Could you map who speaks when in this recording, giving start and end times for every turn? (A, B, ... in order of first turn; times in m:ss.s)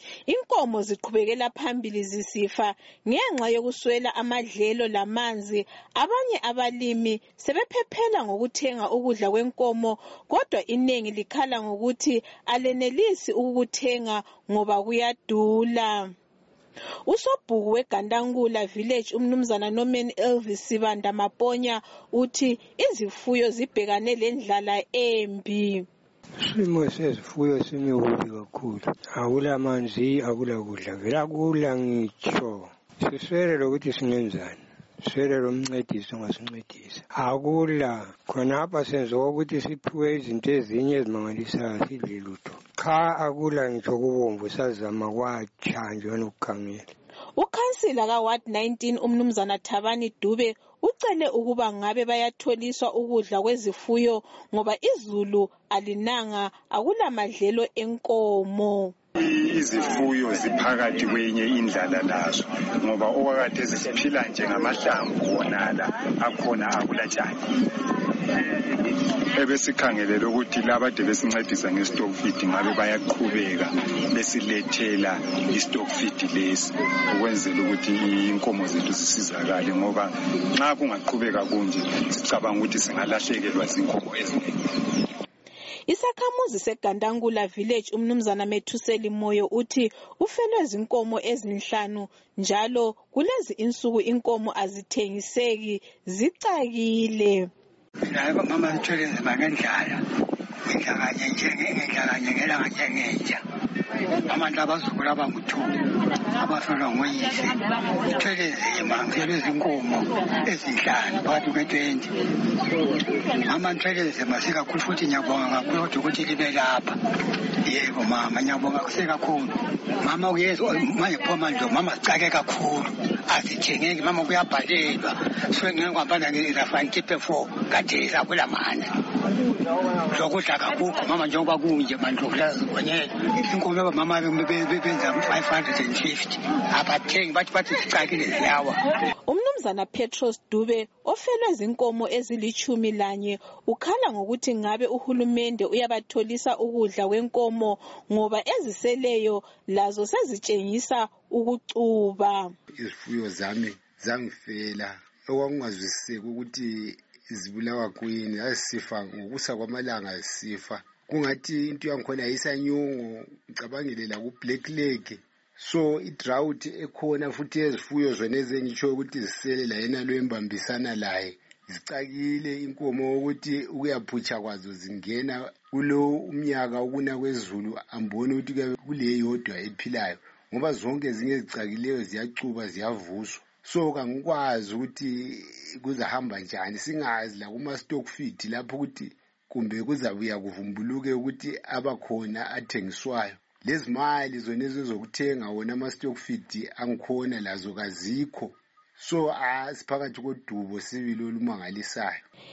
0:00.3-0:16.1 A
0:17.0-0:25.9 A
0:26.4-0:46.9 B
0:47.4-0:58.9 A
0:59.2-1:07.4 C
1:09.4-1:24.5 C
1:25.9-1:37.5 A
1:38.0-1:40.0 D
1:40.7-1:43.4 D
1:44.3-1:45.8 D
1:46.4-1:52.1 D
1:53.4-1:57.0 D
1:57.6-2:08.9 D
2:10.1-2:18.8 D
2:19.3-2:32.5 A
2:32.7-3:22.2 E